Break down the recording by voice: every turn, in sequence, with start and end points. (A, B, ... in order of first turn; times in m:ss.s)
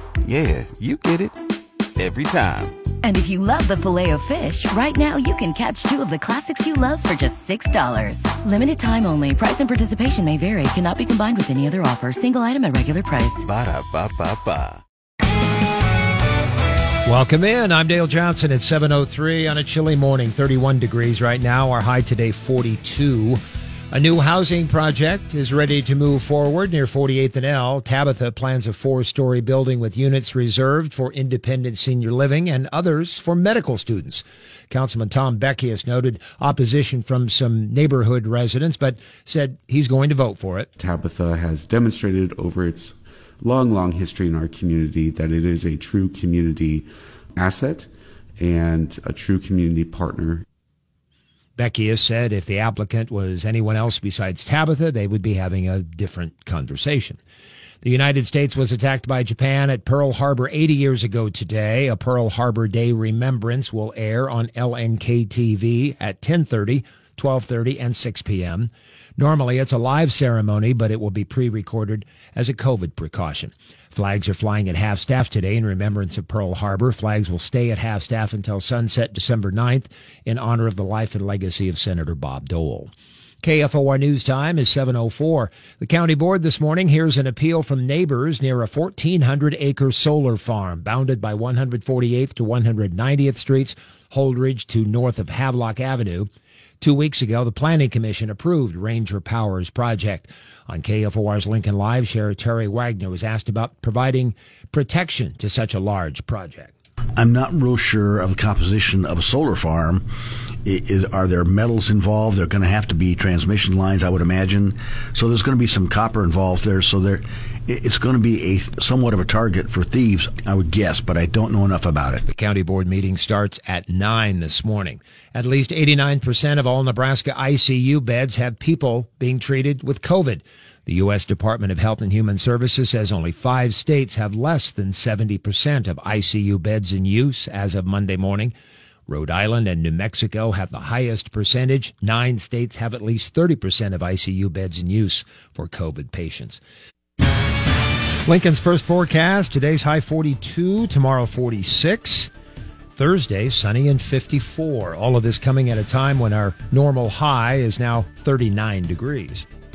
0:00.2-0:01.4 A
0:02.0-0:02.9 A
0:03.0-0:13.5 B
0:13.4-0:14.8 A
0:17.0-0:23.4 C
0:23.9-0:40.7 C
0:40.8-0:50.4 D
0:51.6-0:57.2 C
0:57.8-1:22.9 C
1:23.4-1:36.3 C
1:36.8-1:46.7 C
1:47.2-1:50.0 E
1:50.6-2:02.2 E
2:02.3-2:18.5 C
2:19.1-2:26.6 C
2:28.3-2:32.3 C
2:33.0-2:39.5 C